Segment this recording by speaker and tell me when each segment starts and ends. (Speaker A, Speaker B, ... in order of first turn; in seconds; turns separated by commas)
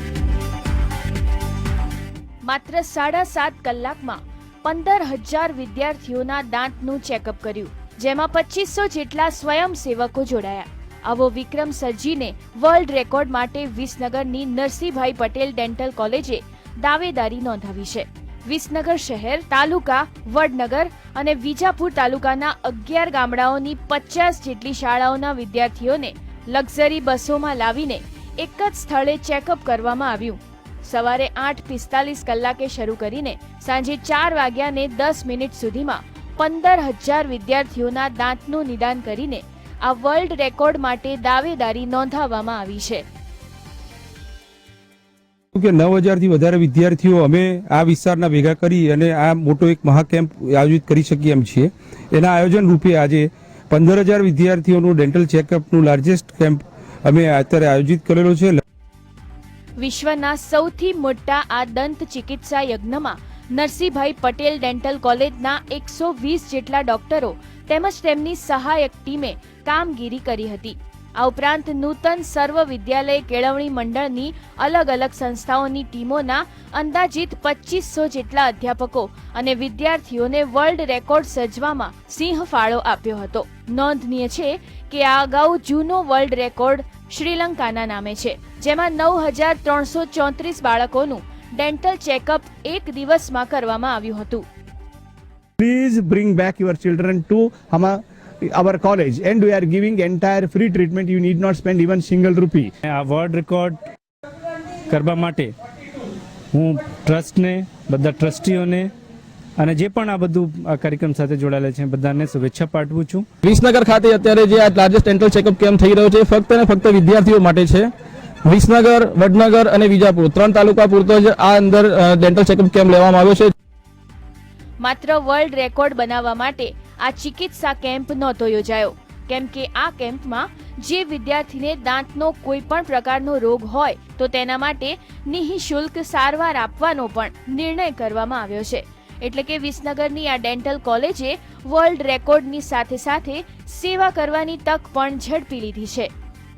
Speaker A: 2.5-43.0, Speaker B: 45.5-58.6, Speaker A: 59.8-94.4, Speaker C: 95.6-102.7, Speaker D: 102.8-103.8, Speaker D: 104.9-105.5, Speaker D: 106.5-108.9, Speaker D: 109.6-113.3, Speaker E: 113.4-117.9, Speaker E: 118.4-123.5, Speaker A: 124.8-146.1